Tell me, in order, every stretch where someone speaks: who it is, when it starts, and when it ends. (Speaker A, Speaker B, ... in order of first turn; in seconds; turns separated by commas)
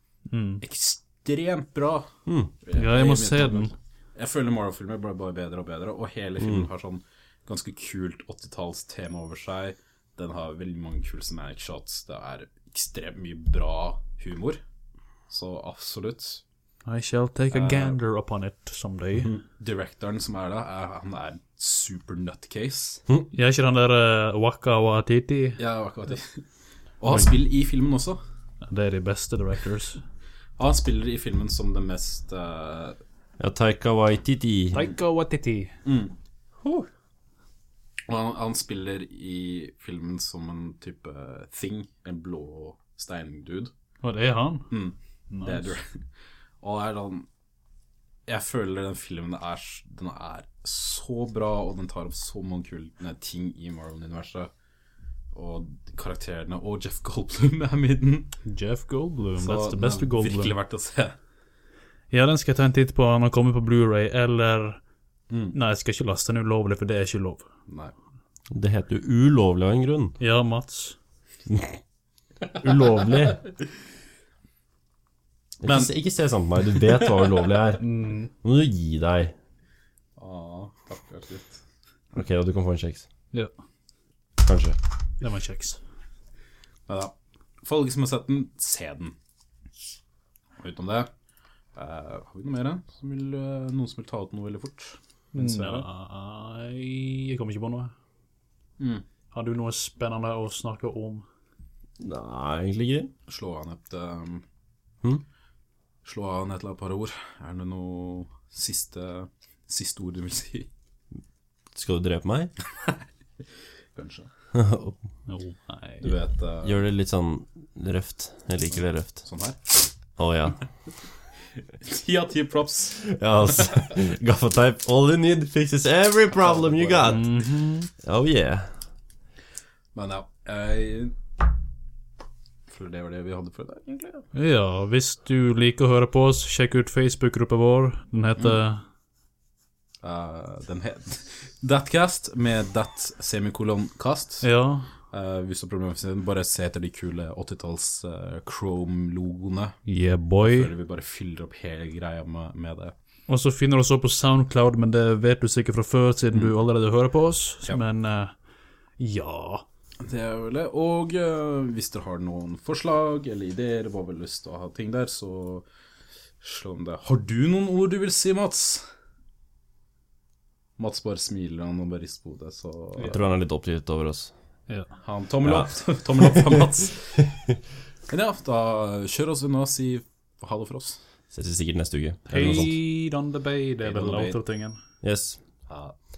Speaker A: 0.3-0.6, Speaker B: 0.6-2.1, Speaker C: 2.3-2.5, Speaker B: 2.6-14.6, Speaker A: 2.7-3.7, Speaker C: 6.4-6.7, Speaker B: 15.3-16.4, Speaker A: 16.9-19.3, Speaker B: 17.5-18.0, Speaker B: 19.3-23.0, Speaker A: 23.3-25.6, Speaker B: 25.6-26.4, Speaker B: 27.0-28.2, Speaker A: 28.6-30.0, Speaker B: 30.6-33.0, Speaker C: 33.4-34.9, Speaker A: 34.7-35.7, Speaker B: 35.9-36.1, Speaker C: 36.6-36.9, Speaker B: 38.1-43.7, Speaker A: 44.0-44.7, Speaker B: 44.7-46.0, Speaker A: 45.3-45.8, Speaker B: 46.6-47.3, Speaker B: 48.3-54.5, Speaker B: 55.3-58.3, Speaker A: 58.5-60.5, Speaker B: 59.4-61.2, Speaker A: 62.1-64.8, Speaker B: 65.3-65.6, Speaker A: 65.5-67.5, Speaker B: 67.7-67.9, Speaker C: 68.5-70.2, Speaker A: 70.2-71.0, Speaker C: 71.5-71.8, Speaker C: 72.6-73.4, Speaker C: 75.6-79.3, Speaker B: 75.7-75.9, Speaker A: 77.8-78.3, Speaker B: 80.2-81.5, Speaker C: 82.1-83.0, Speaker C: 84.4-84.8, Speaker A: 85.2-85.8, Speaker B: 86.9-89.2, Speaker B: 90.6-91.1, Speaker B: 91.8-95.9, Speaker A: 95.3-97.9, Speaker B: 98.8-99.0, Speaker A: 99.3-101.2, Speaker C: 102.0-103.1, Speaker B: 103.3-104.4, Speaker B: 106.0-110.7, Speaker C: 111.7-112.5, Speaker B: 114.0-114.3, Speaker C: 114.5-115.0, Speaker A: 115.3-116.1, Speaker B: 116.0-116.8, Speaker C: 116.6-119.2, Speaker B: 118.8-119.8, Speaker C: 120.2-120.6, Speaker B: 121.8-123.1, Speaker C: 123.0-127.4, Speaker B: 126.3-127.3, Speaker A: 127.0-127.9, Speaker C: 128.0-128.7, Speaker B: 129.9-131.2, Speaker B: 132.7-134.3, Speaker A: 134.3-138.8, Speaker B: 140.0-144.5, Speaker A: 144.4-144.9, Speaker B: 145.1-149.8, Speaker A: 149.9-150.7, Speaker B: 150.4-152.9, Speaker A: 153.3-158.3, Speaker A: 159.0-159.7, Speaker B: 160.0-165.7, Speaker B: 166.4-168.9, Speaker B: 170.8-173.2, Speaker C: 173.1-174.3, Speaker B: 175.0-177.2, Speaker C: 175.4-177.5, Speaker B: 178.1-181.0, Speaker C: 181.3-182.8, Speaker A: 182.3-184.8, Speaker B: 182.3-182.7, Speaker B: 183.8-184.4, Speaker C: 185.0-185.4, Speaker B: 185.7-186.0